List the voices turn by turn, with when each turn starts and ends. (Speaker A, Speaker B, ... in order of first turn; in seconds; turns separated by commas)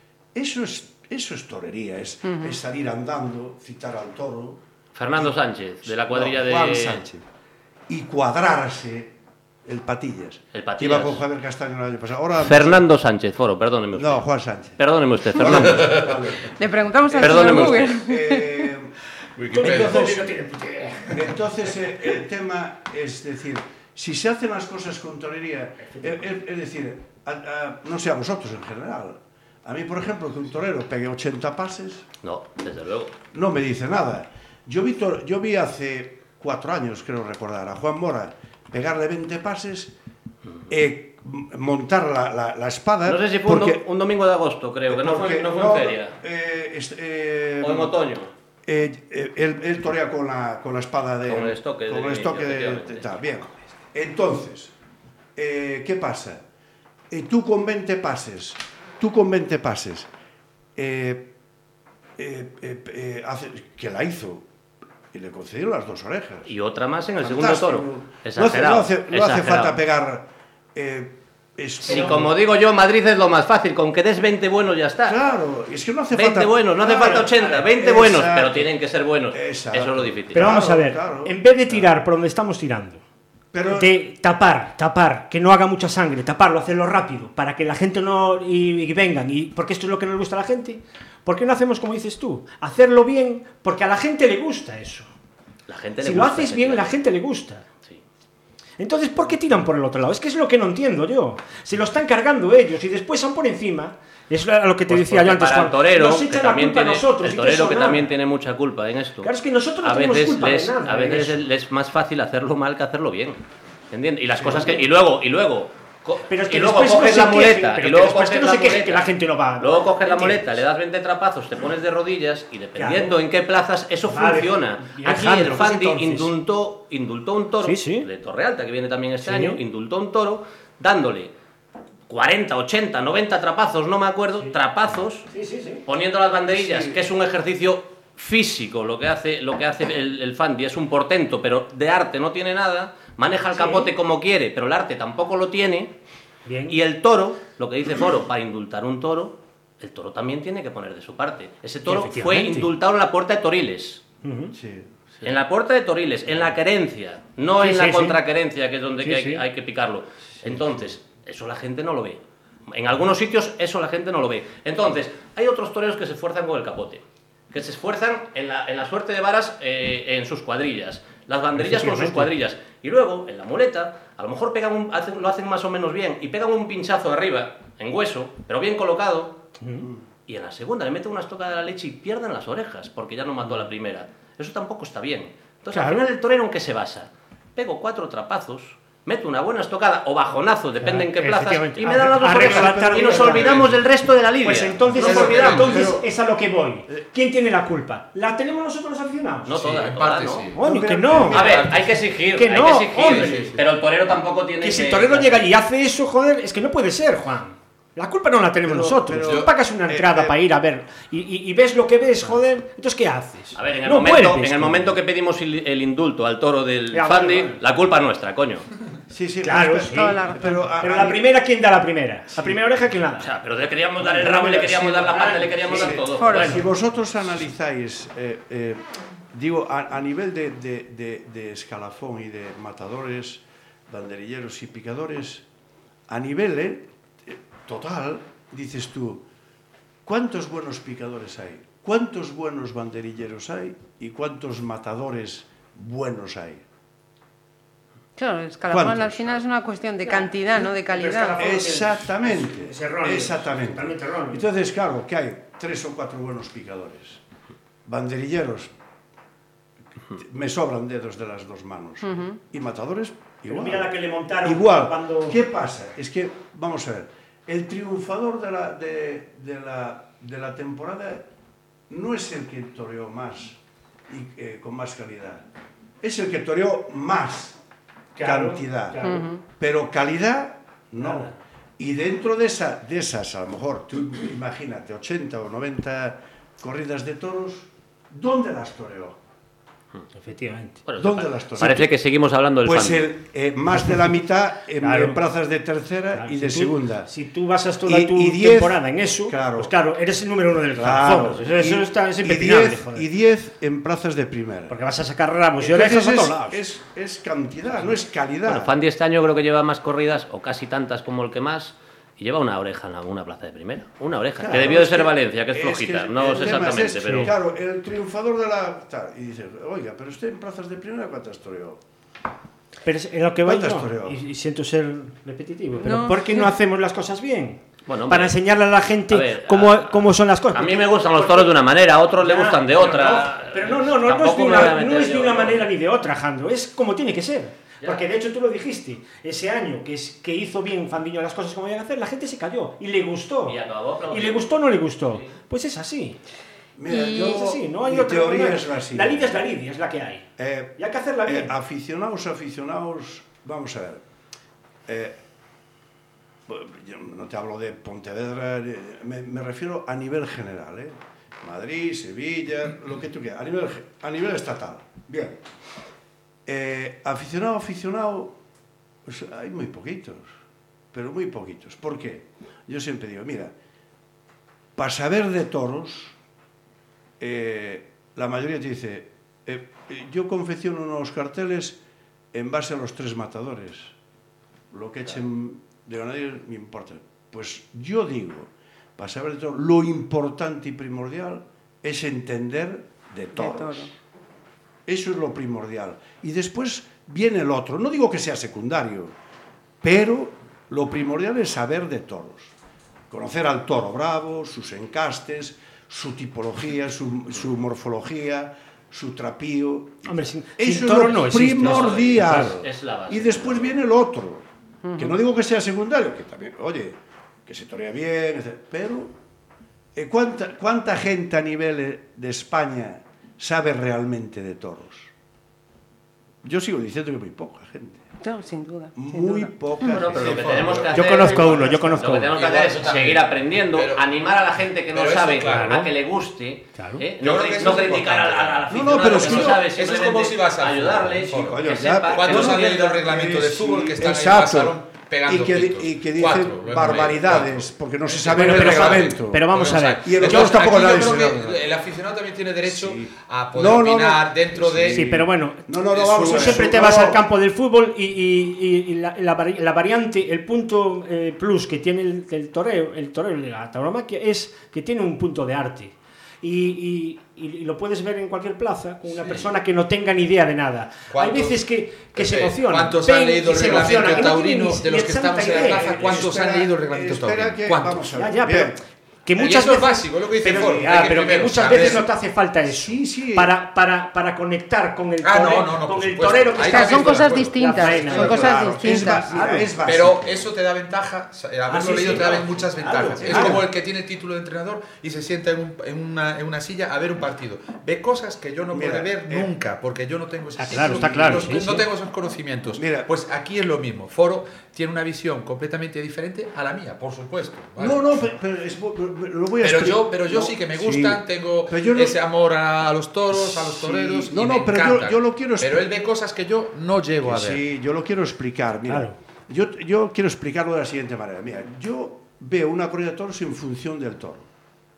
Speaker A: 0.3-4.6, Speaker B: 2.3-2.6, Speaker C: 5.0-7.0, Speaker A: 5.9-7.2, Speaker A: 7.9-9.1, Speaker A: 9.7-12.8, Speaker C: 10.5-11.2, Speaker C: 12.4-14.3, Speaker A: 13.9-14.8, Speaker C: 14.8-16.1, Speaker A: 15.3-16.5, Speaker D: 15.7-16.0, Speaker B: 16.6-18.7, Speaker A: 17.1-18.9, Speaker C: 17.2-18.0, Speaker D: 19.4-20.2, Speaker A: 19.5-20.3, Speaker E: 19.5-21.1, Speaker A: 21.1-32.1, Speaker E: 25.8-26.2, Speaker C: 32.2-33.1, Speaker A: 33.3-39.9, Speaker A: 40.7-43.8, Speaker C: 43.1-46.1, Speaker A: 44.9-48.0, Speaker C: 47.6-48.3, Speaker A: 48.7-54.7, Speaker C: 51.3-53.5, Speaker A: 55.4-56.4, Speaker A: 57.1-60.1, Speaker A: 60.8-61.3, Speaker A: 62.2-64.5, Speaker A: 65.1-66.5, Speaker C: 66.5-69.8, Speaker A: 67.2-72.3, Speaker C: 71.8-75.2, Speaker A: 75.1-78.7, Speaker C: 76.1-80.5, Speaker A: 79.3-81.8, Speaker E: 80.3-83.0, Speaker A: 83.5-83.9, Speaker E: 83.7-95.1, Speaker C: 95.7-96.9, Speaker E: 96.0-97.7, Speaker E: 98.8-108.1, Speaker C: 104.9-109.3, Speaker E: 109.2-111.4, Speaker C: 109.8-131.3, Speaker A: 114.4-114.8, Speaker E: 116.3-120.5, Speaker E: 122.8-123.2, Speaker E: 124.1-126.3, Speaker E: 127.6-128.1, Speaker E: 129.2-129.6, Speaker C: 132.1-135.3, Speaker E: 135.3-135.8, Speaker C: 135.9-145.9, Speaker A: 136.5-137.0, Speaker E: 143.6-143.9, Speaker E: 146.5-146.8, Speaker C: 146.7-154.0, Speaker E: 151.9-152.7, Speaker E: 154.2-154.6, Speaker A: 154.5-155.2, Speaker C: 155.2-179.4, Speaker E: 157.6-158.2, Speaker E: 159.0-159.4, Speaker E: 171.6-172.3, Speaker E: 179.6-179.9, Speaker C: 180.3-195.6, Speaker E: 185.7-186.1, Speaker E: 190.8-193.6, Speaker D: 192.4-193.8, Speaker E: 194.4-199.6, Speaker D: 194.9-195.9, Speaker A: 195.6-196.1, Speaker C: 199.5-200.5, Speaker D: 199.6-200.6, Speaker E: 200.6-201.4, Speaker A: 200.6-201.8, Speaker D: 201.3-201.9, Speaker C: 201.3-205.5, Speaker E: 202.4-203.4, Speaker D: 203.0-203.6, Speaker E: 204.6-215.0, Speaker A: 208.6-210.4, Speaker D: 209.3-209.5, Speaker C: 213.6-218.7, Speaker E: 216.9-217.6, Speaker A: 219.1-221.2, Speaker E: 219.4-223.3, Speaker B: 219.9-220.7, Speaker A: 222.3-222.6, Speaker C: 223.2-226.6, Speaker E: 224.0-226.6, Speaker A: 225.7-235.4, Speaker B: 226.2-226.6, Speaker A: 236.1-239.2, Speaker A: 240.1-246.6, Speaker B: 248.2-251.4, Speaker A: 248.7-249.4, Speaker E: 250.9-254.4, Speaker A: 251.4-257.2, Speaker A: 257.9-258.7, Speaker A: 260.1-271.3, Speaker B: 262.0-262.3, Speaker E: 263.5-265.4, Speaker A: 271.9-273.6, Speaker A: 274.1-275.5, Speaker A: 276.0-277.6, Speaker E: 278.1-279.3, Speaker A: 278.2-289.2, Speaker B: 279.0-279.4, Speaker E: 290.2-290.8, Speaker C: 290.9-293.1, Speaker A: 291.0-291.9, Speaker A: 292.6-297.1, Speaker E: 294.8-295.2, Speaker E: 296.1-303.1, Speaker A: 297.9-299.7, Speaker A: 300.7-304.8, Speaker E: 304.7-306.6, Speaker A: 305.6-308.7, Speaker C: 308.5-317.4, Speaker A: 314.4-321.8, Speaker E: 317.0-317.3, Speaker E: 322.9-331.5, Speaker A: 323.4-324.2, Speaker B: 325.8-326.5, Speaker C: 327.9-328.4, Speaker C: 329.1-335.6, Speaker E: 332.2-343.6, Speaker C: 343.5-344.6, Speaker E: 344.1-346.2, Speaker A: 346.8-349.4, Speaker B: 346.9-347.4, Speaker E: 347.1-350.3, Speaker A: 350.4-354.0, Speaker E: 350.8-351.5, Speaker A: 354.9-355.2, Speaker A: 356.5-365.4, Speaker A: 366.5-368.3, Speaker A: 369.1-370.3, Speaker A: 370.9-373.5, Speaker A: 374.8-376.1, Speaker A: 377.2-381.8, Speaker A: 382.3-383.9, Speaker A: 384.7-393.9, Speaker B: 393.4-393.9, Speaker A: 394.9-399.1, Speaker A: 399.8-402.5, Speaker A: 403.1-419.1, Speaker E: 410.1-412.5, Speaker C: 411.5-413.8, Speaker B: 414.9-415.1, Speaker A: 419.9-425.1, Speaker A: 426.4-428.0, Speaker B: 428.2-430.0, Speaker A: 428.9-432.0, Speaker C: 429.8-443.1, Speaker D: 430.1-431.6, Speaker E: 430.9-432.3, Speaker D: 432.2-434.0, Speaker D: 434.9-435.9, Speaker E: 435.4-435.9, Speaker E: 436.8-437.0, Speaker D: 437.2-455.1, Speaker A: 438.7-439.6, Speaker A: 441.3-449.5, Speaker E: 448.3-451.1, Speaker A: 450.0-451.6, Speaker A: 452.7-457.2, Speaker E: 454.9-476.2, Speaker D: 455.9-457.0, Speaker D: 471.1-478.1, Speaker A: 473.6-474.3, Speaker A: 475.4-478.8, Speaker E: 478.2-489.7, Speaker D: 479.4-482.1, Speaker A: 481.6-482.0, Speaker A: 482.7-483.5, Speaker D: 485.2-488.4, Speaker B: 486.6-489.4, Speaker A: 488.1-490.5, Speaker D: 489.8-508.3, Speaker E: 491.7-493.6, Speaker A: 491.9-493.7, Speaker A: 498.7-499.5, Speaker E: 500.6-501.9, Speaker A: 500.7-501.8, Speaker A: 502.8-503.1, Speaker A: 507.8-512.2, Speaker D: 509.6-517.6, Speaker A: 513.3-515.8, Speaker A: 517.2-524.5, Speaker E: 518.9-519.2